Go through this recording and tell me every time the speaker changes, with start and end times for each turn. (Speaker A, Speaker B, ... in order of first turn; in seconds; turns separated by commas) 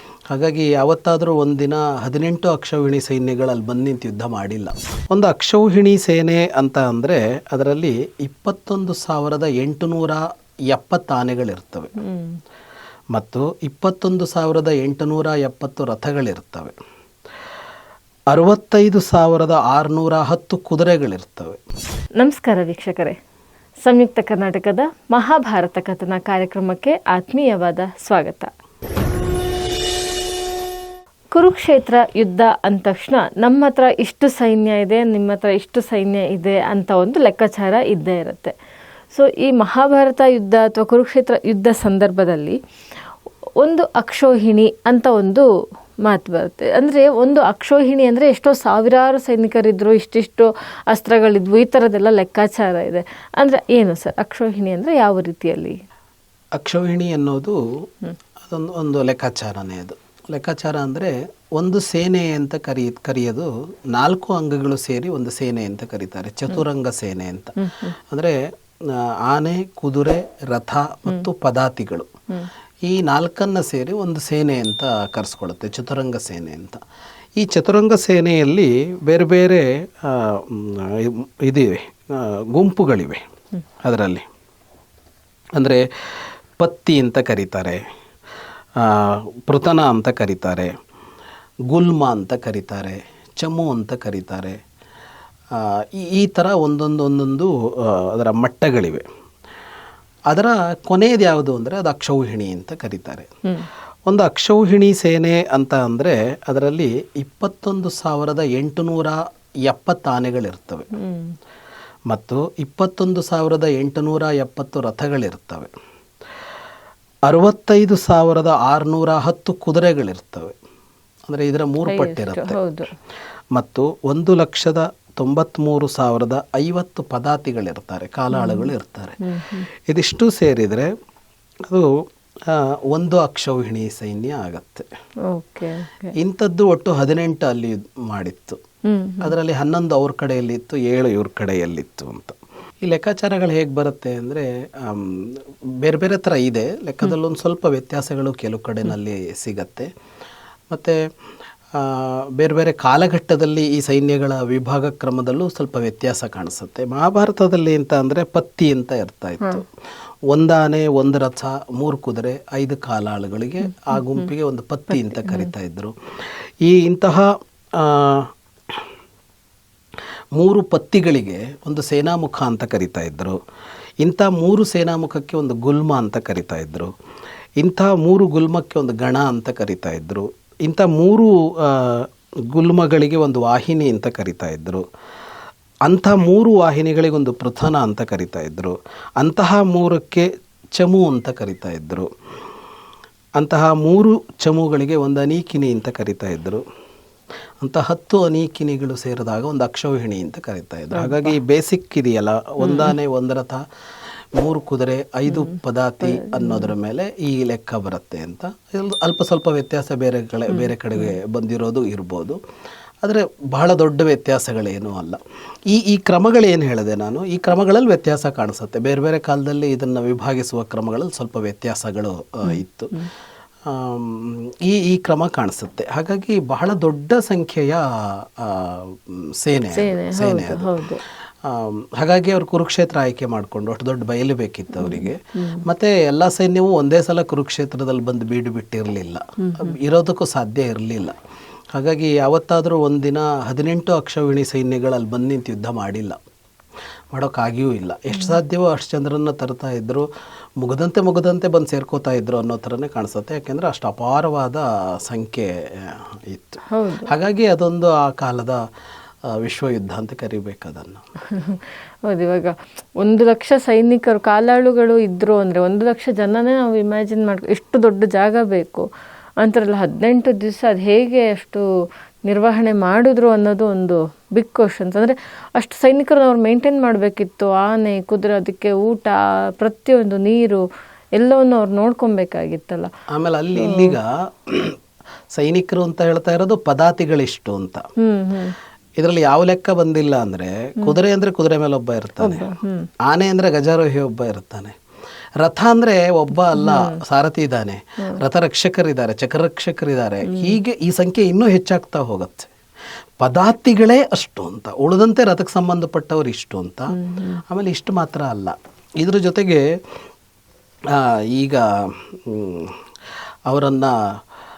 Speaker A: 0.3-11.9, Speaker B: 12.0-12.4, Speaker A: 13.1-16.7, Speaker A: 18.3-21.6, Speaker B: 22.2-23.2, Speaker B: 23.9-28.5, Speaker B: 31.3-38.5, Speaker B: 39.1-42.6, Speaker B: 43.6-45.5, Speaker B: 46.0-55.8, Speaker A: 56.6-57.6, Speaker A: 58.4-72.1, Speaker B: 67.6-67.9, Speaker A: 72.8-76.8, Speaker A: 77.4-83.2, Speaker A: 83.8-84.2, Speaker A: 85.6-85.8, Speaker A: 86.6-87.8, Speaker A: 88.8-90.7, Speaker A: 91.7-94.6, Speaker A: 95.5-99.0, Speaker A: 100.3-103.3, Speaker A: 104.1-110.9, Speaker B: 110.9-111.3, Speaker A: 112.1-115.7, Speaker A: 117.3-120.5, Speaker A: 121.3-122.6, Speaker B: 121.9-122.9, Speaker A: 123.5-129.2, Speaker B: 128.3-128.7, Speaker B: 129.2-129.7, Speaker A: 129.9-130.9, Speaker A: 132.5-134.9, Speaker B: 135.3-136.1, Speaker A: 136.2-138.6, Speaker B: 138.9-139.3, Speaker A: 139.2-149.9, Speaker A: 150.7-151.0, Speaker A: 151.7-159.6, Speaker A: 160.3-168.8, Speaker B: 163.7-164.3, Speaker B: 164.9-165.5, Speaker A: 170.4-173.4, Speaker A: 174.0-176.9, Speaker A: 177.6-184.8, Speaker A: 185.9-192.1, Speaker A: 193.4-196.6, Speaker A: 197.6-203.6, Speaker B: 200.9-201.3, Speaker B: 202.6-202.9, Speaker A: 204.4-212.4, Speaker B: 205.3-206.7, Speaker B: 210.5-211.1, Speaker A: 213.0-222.9, Speaker B: 222.4-223.1, Speaker A: 223.7-230.7, Speaker B: 229.7-231.0, Speaker A: 231.4-241.1, Speaker B: 234.8-235.6, Speaker B: 239.4-239.7, Speaker A: 241.7-246.2, Speaker A: 247.1-250.1, Speaker A: 250.6-258.6, Speaker B: 256.7-257.1, Speaker A: 259.3-261.0, Speaker B: 261.3-268.9, Speaker B: 269.4-271.6, Speaker B: 272.2-280.6, Speaker B: 281.2-282.9, Speaker A: 283.1-284.8, Speaker B: 283.6-283.9, Speaker A: 285.3-287.8, Speaker B: 288.0-288.5, Speaker A: 289.0-292.4, Speaker B: 292.2-292.9, Speaker A: 293.1-294.8, Speaker A: 295.4-302.5, Speaker B: 296.5-297.0, Speaker B: 300.3-300.6, Speaker A: 303.2-306.9, Speaker B: 306.9-307.4, Speaker A: 307.5-309.6, Speaker A: 310.9-312.8, Speaker A: 313.5-313.9